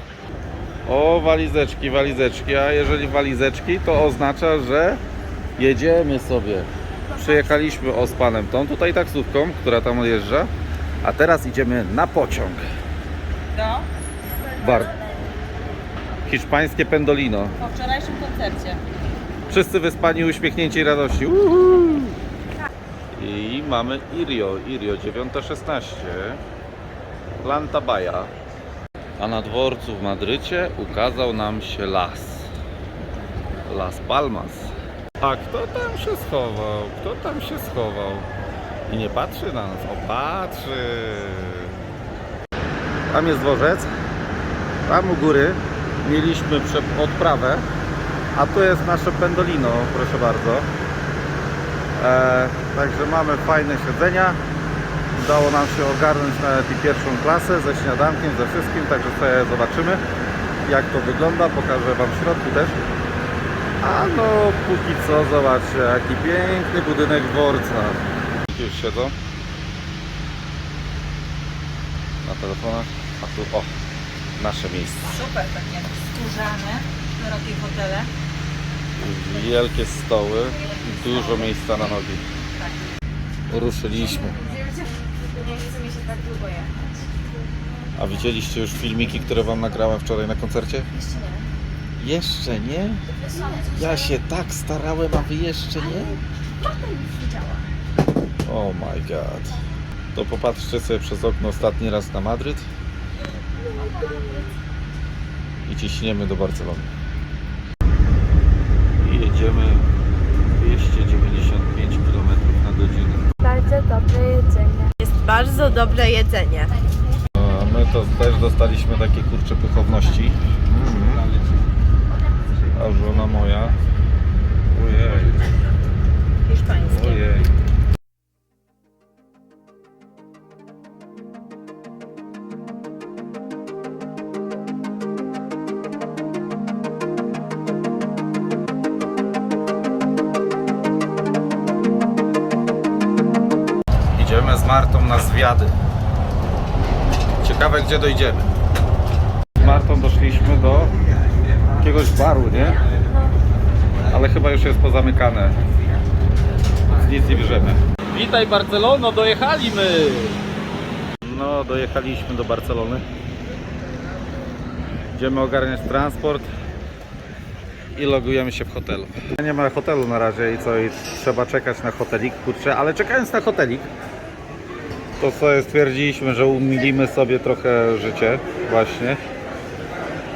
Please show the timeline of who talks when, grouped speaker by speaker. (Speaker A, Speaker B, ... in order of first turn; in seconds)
Speaker A: 0.8-5.0, 5.6-10.5, 11.0-12.6, 14.6-14.9, 16.2-17.6, 19.5-22.2, 23.1-26.4, 27.4-28.3, 29.2-32.5, 33.6-38.3, 38.9-41.8, 43.1-43.9, 44.8-47.6, 48.3-50.7, 51.9-54.4, 55.1-60.0, 60.6-62.8, 63.8-69.1, 72.2-73.7, 74.4-75.2, 78.9-82.2, 83.5-84.4, 88.0-90.9, 92.0-93.0, 93.6-96.2, 98.5-99.6, 100.1-102.7, 105.6-106.9, 109.0-109.9, 110.5-113.3, 117.3-121.3, 122.7-123.8, 124.7-125.4, 126.8-127.5, 144.1-145.7, 147.4-148.5, 149.6-150.9, 151.7-152.8, 154.1-155.6, 156.9-160.4, 161.2-163.0, 165.1-166.5, 167.9-173.9, 175.2-179.2
Speaker B: 13.5-13.9, 17.6-18.8, 75.1-78.1
Speaker C: 84.4-86.9, 91.1-91.4, 93.3-93.7, 96.7-97.5, 103.7-104.5, 113.4-116.7, 126.5-127.0